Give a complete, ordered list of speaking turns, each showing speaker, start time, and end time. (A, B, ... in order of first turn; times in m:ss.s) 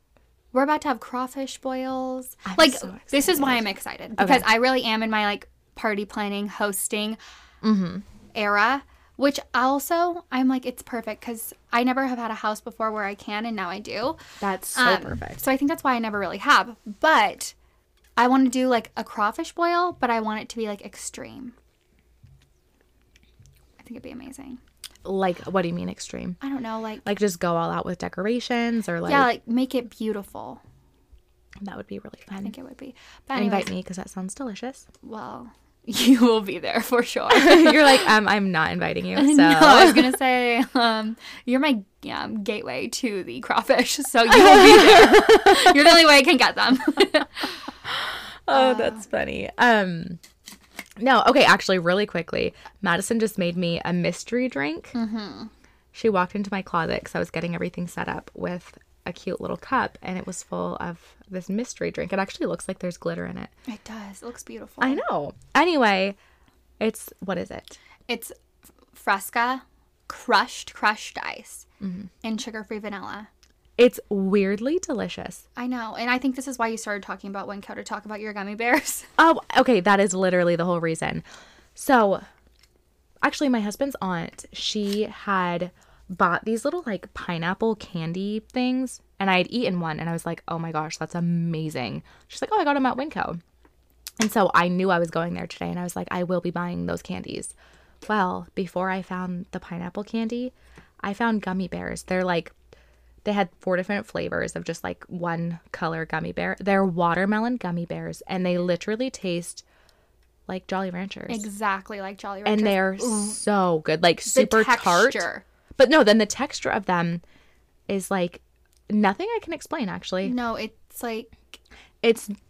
0:00.5-0:07.2 A
0:02.4-0:03.6 B
0:04.2-0:04.5 B
0:07.6-0:08.0 B
0:08.3-0:14.2 A
0:14.4-0:15.4 B
0:14.7-0:17.5 A
0:18.2-0:21.6 A
0:23.8-0:24.6 A
0:25.0-0:26.4 B
0:26.4-0:27.1 A
0:27.0-0:29.3 B
0:29.0-0:30.6 A
0:31.6-0:32.5 B
0:32.4-0:33.7 A
0:33.3-0:34.8 B
0:35.0-0:38.1 A
0:37.3-0:40.1 B
0:39.1-0:47.5 A
0:44.3-0:45.8 B
0:47.8-0:50.2 B
0:48.5-0:49.0 A
0:51.0-0:54.9 B
0:54.9-0:55.5 A
0:55.9-1:03.5 B
1:03.7-1:05.0 A
1:04.8-1:06.2 B
1:06.8-1:07.8 B
1:08.1-1:08.3 A
1:08.9-1:11.6 A
1:11.8-1:12.1 B
1:12.2-1:13.3 A
1:13.8-1:15.4 B
1:15.6-1:19.1 A
1:19.2-1:21.2 B
1:21.8-1:22.2 B
1:23.2-1:33.4 B
1:34.2-1:42.5 B
1:43.2-1:49.6 B
1:50.5-1:51.5 B
1:51.3-1:53.4 A
1:52.4-1:57.2 B
1:54.3-1:55.4 A
1:57.9-2:00.4 B
2:00.2-2:01.4 A
2:02.0-2:02.3 B